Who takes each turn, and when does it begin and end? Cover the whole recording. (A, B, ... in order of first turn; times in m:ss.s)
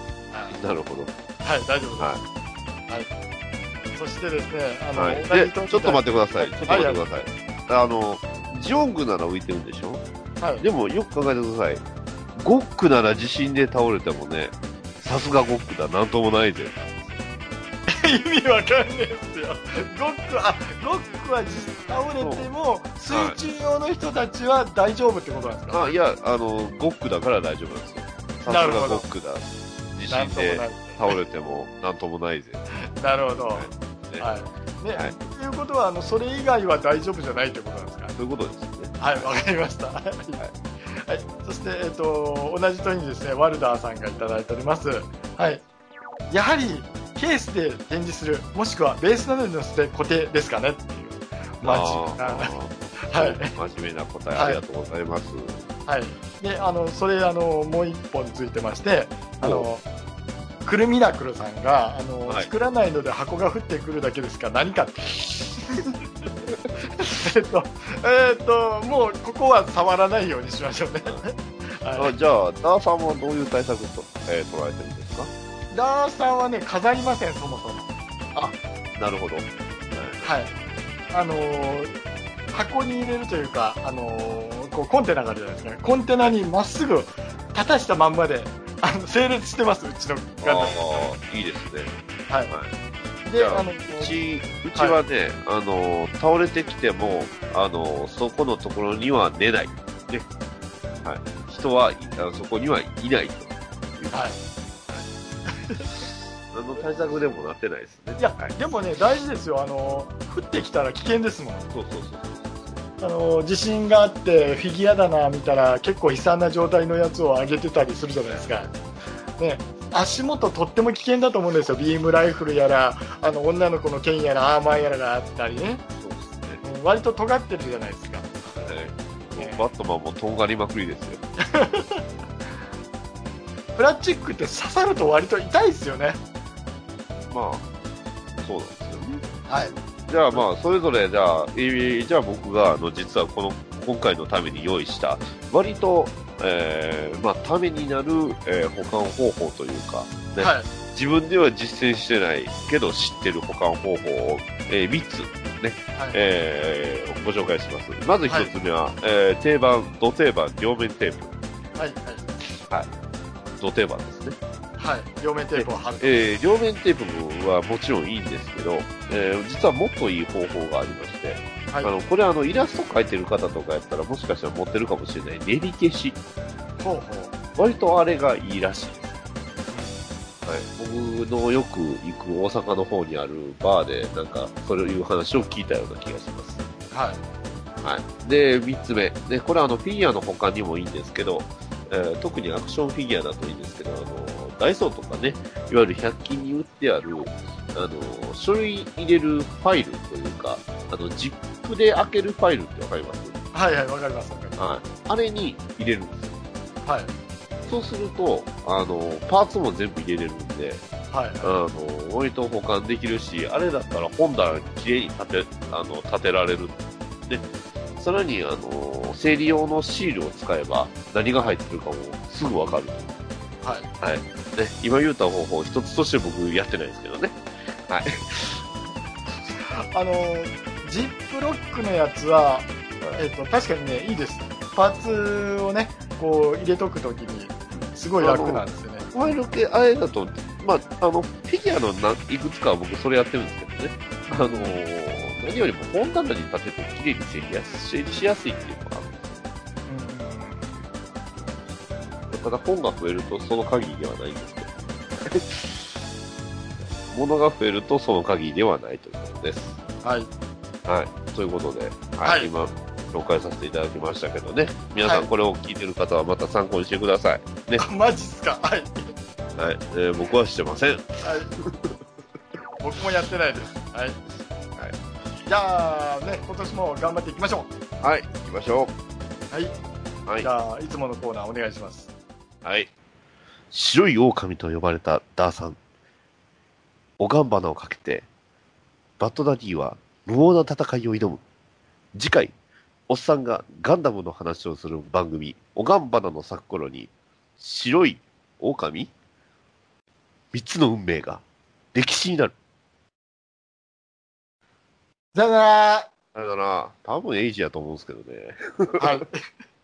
0:00.3-0:00.6 A
0:00.5-0:01.1 B
0:01.4-0:02.2 A
0:04.0-0:07.0 A
0:05.0-0:10.0 B
0:10.4-0:10.7 A
0:10.6-0:11.8 B
0:12.4-0:17.2 B
0:17.9-0:26.0 A
0:22.2-0:22.5 B
0:23.1-0:23.4 B
0:25.7-0:32.6 B
0:28.5-0:29.1 A
0:30.1-0:31.2 A
0:33.0-0:38.2 A
0:33.5-0:34.2 B
0:38.2-0:39.3 B
0:39.0-0:45.6 A
0:46.3-0:53.5 A
0:51.6-0:55.7 B
0:54.3-0:54.6 A
0:55.9-0:59.8 A
0:59.4-0:59.7 B
1:00.6-1:06.0 A
1:06.9-1:12.2 A
1:12.0-1:15.3 B
1:15.7-1:17.9 A
1:18.3-1:20.3 B
1:20.2-1:20.5 A
1:21.1-1:21.9 A
1:22.5-1:31.1 A
1:30.4-1:31.9 B
1:33.2-1:34.1 A
1:33.4-1:40.3 B
1:41.0-1:44.3 B
1:44.1-1:44.4 A
1:45.5-1:45.9 A
1:46.5-1:48.5 B
1:48.2-1:51.7 A
1:51.7-1:52.8 B
1:53.0-1:58.7 A
1:58.3-1:58.6 B
1:59.4-2:05.8 A
2:06.0-2:06.6 B
2:06.6-2:08.3 A
2:08.5-2:11.2 B
2:09.4-2:09.7 A
2:11.4-2:12.0 A
2:13.8-2:16.2 A
2:17.3-2:17.7 B
2:18.4-2:41.3 B
2:19.5-2:19.8 A
2:30.4-2:30.7 A
2:41.8-2:42.3 A
2:43.6-2:44.4 B
2:44.8-2:46.2 A
2:45.6-2:56.2 B
2:56.8-2:57.3 A
2:57.6-2:59.2 B
2:59.7-3:00.1 A
3:00.4-3:06.6 B
3:06.9-3:07.2 A
3:07.8-3:23.4 B
3:23.5-3:24.6 A
3:24.6-3:26.4 B
3:26.8-3:27.1 A
3:27.7-3:30.8 B
3:31.1-3:31.6 A
3:31.4-3:37.5 B
3:38.0-3:43.1 B
3:43.6-3:43.9 A
3:44.0-3:48.6 B
3:49.6-3:59.4 A
3:57.7-4:09.4 B
4:04.3-4:04.8 A
4:09.9-4:10.7 A
4:12.3-4:15.9 B
4:17.1-4:19.8 B
4:20.0-4:20.3 A
4:20.8-4:27.8 B
4:22.2-4:22.5 A
4:25.0-4:25.3 A
4:27.8-4:29.1 A
4:29.6-4:32.0 B
4:31.2-4:31.5 A
4:32.8-4:34.2 A
4:35.5-4:37.7 A
4:38.0-4:38.9 B
4:40.4-4:42.1 A
4:42.6-4:42.9 B
4:43.7-4:45.8 B
4:47.2-4:48.3 B
4:49.2-4:51.4 B
4:52.1-4:52.5 B
4:53.1-4:59.1 B
5:00.5-5:01.4 B
5:01.9-5:02.5 B
5:05.3-5:06.1 A
5:06.4-5:09.2 B
5:09.0-5:09.4 A